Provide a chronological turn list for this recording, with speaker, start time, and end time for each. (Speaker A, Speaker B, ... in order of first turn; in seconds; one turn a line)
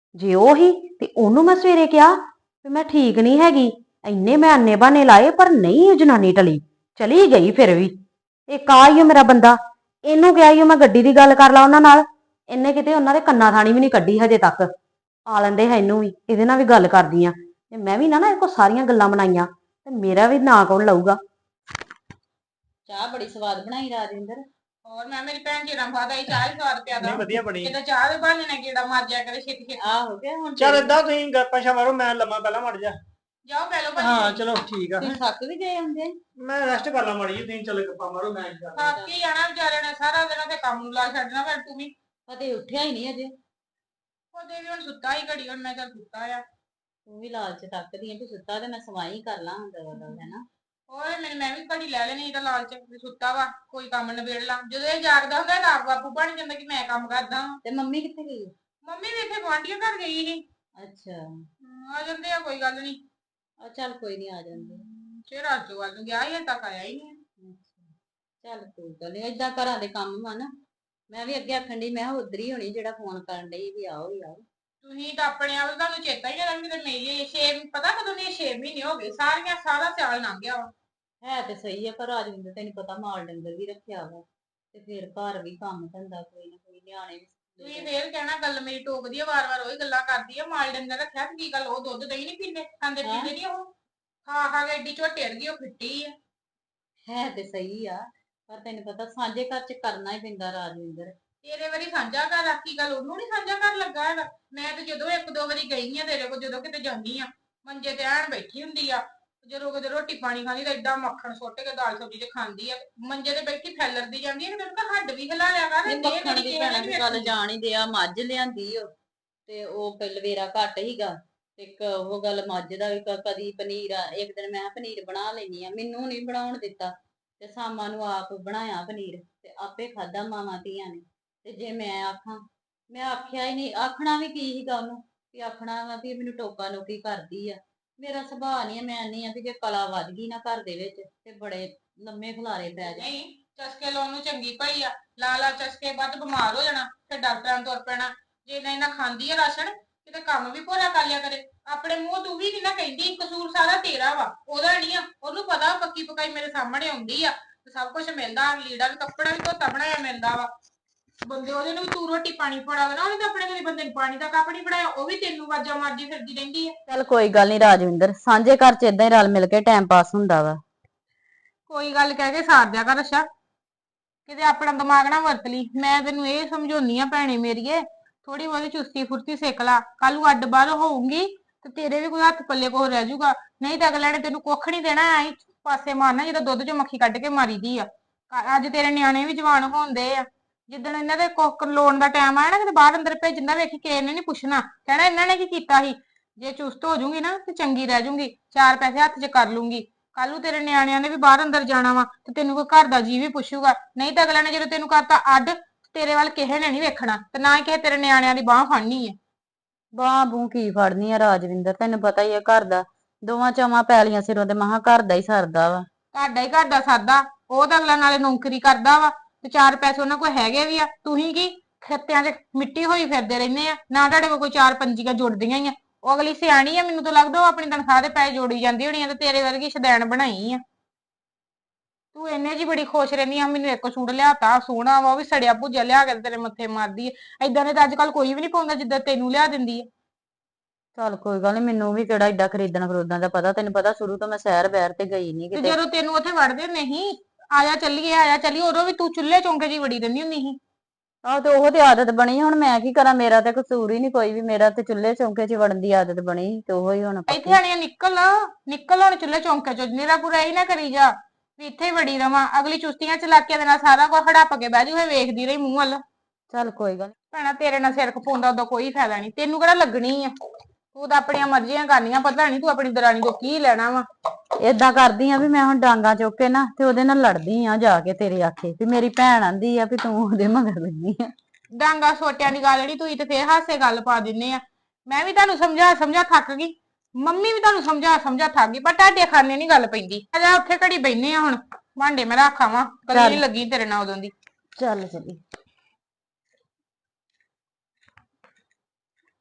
Speaker A: 0.1-7.9
Speaker A: 8.5-14.7
Speaker A: 15.3-21.2
Speaker B: 22.9-24.4
Speaker C: 24.8-29.8
Speaker D: 27.0-27.8
Speaker B: 29.8-30.9
Speaker D: 30.6-33.0
Speaker C: 33.4-34.5
Speaker D: 34.0-35.2
Speaker B: 35.0-36.1
Speaker D: 36.4-38.9
Speaker C: 38.7-41.9
Speaker B: 38.9-39.1
Speaker B: 42.3-43.3
Speaker C: 44.3-46.4
Speaker B: 47.1-50.4
Speaker C: 50.0-50.2
Speaker C: 50.9-57.6
Speaker B: 57.6-58.5
Speaker C: 58.8-60.4
Speaker B: 60.8-61.2
Speaker C: 61.6-63.0
Speaker B: 63.6-64.9
Speaker C: 64.6-67.2
Speaker B: 67.4-67.9
Speaker B: 68.4-70.5
Speaker B: 71.1-74.4
Speaker C: 74.8-80.7
Speaker B: 81.2-87.9
Speaker C: 87.6-93.7
Speaker B: 93.0-93.3
Speaker C: 94.2-96.1
Speaker B: 97.0-101.1
Speaker C: 101.4-117.3
Speaker B: 115.8-118.9
Speaker B: 119.5-143.1
Speaker C: 142.8-160.5
Speaker C: 161.2-166.7
Speaker B: 166.9-170.6
Speaker C: 171.7-173.2
Speaker C: 174.3-209.2
Speaker B: 209.9-215.9
Speaker C: 216.1-230.6
Speaker C: 232.1-239.9
Speaker B: 240.9-245.8
Speaker C: 245.5-250.6
Speaker B: 251.2-257.6
Speaker C: 257.3-266.0
Speaker B: 266.5-267.1
Speaker C: 267.3-270.3
Speaker C: 270.9-274.0
Speaker B: 274.6-281.3
Speaker C: 281.7-294.3
Speaker B: 293.1-293.4
Speaker A: 294.8-295.4